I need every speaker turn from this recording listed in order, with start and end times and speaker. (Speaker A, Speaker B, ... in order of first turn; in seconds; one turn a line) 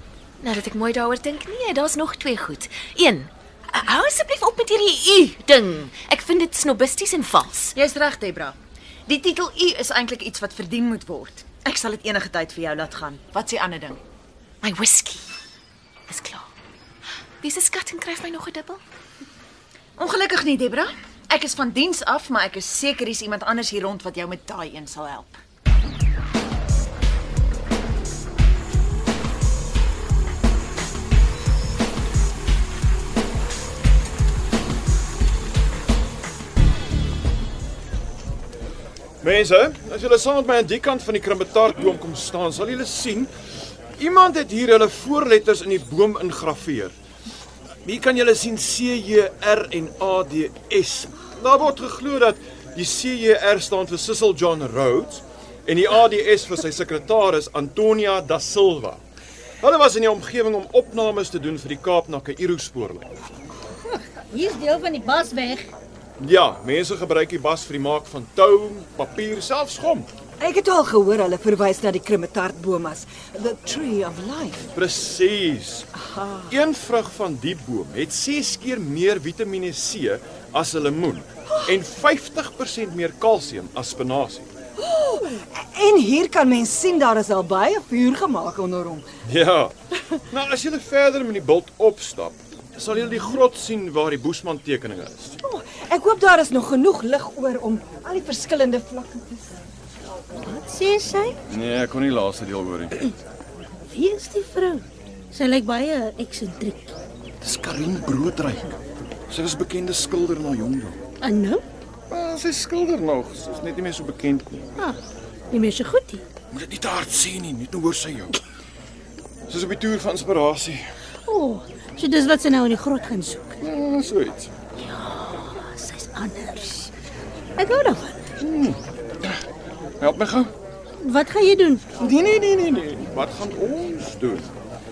Speaker A: 0.4-7.7
Speaker B: 7.7-14.0
Speaker A: 14.6-15.3
Speaker A: 16.1-16.5
Speaker A: 17.4-18.8
Speaker B: 20.0-25.4
Speaker C: 39.2-43.3
Speaker C: 44.0-47.0
Speaker C: 47.8-59.0
Speaker C: 59.6-63.2
Speaker D: 63.9-65.7
Speaker C: 66.2-70.1
Speaker E: 70.4-74.7
Speaker C: 74.8-75.9
Speaker E: 76.0-76.5
Speaker C: 76.5-84.5
Speaker E: 84.8-89.1
Speaker C: 89.2-89.7
Speaker C: 90.3-95.4
Speaker E: 95.4-99.6
Speaker D: 100.4-101.4
Speaker C: 101.5-103.2
Speaker D: 103.9-107.0
Speaker C: 107.4-111.0
Speaker D: 111.2-111.7
Speaker C: 112.1-114.8
Speaker D: 115.5-116.3
Speaker C: 116.5-118.4
Speaker C: 119.5-120.8
Speaker D: 121.2-123.6
Speaker C: 123.6-124.5
Speaker D: 124.8-126.9
Speaker D: 127.6-128.2
Speaker C: 128.4-129.4
Speaker C: 130.0-130.5
Speaker D: 131.0-131.8
Speaker C: 132.0-134.5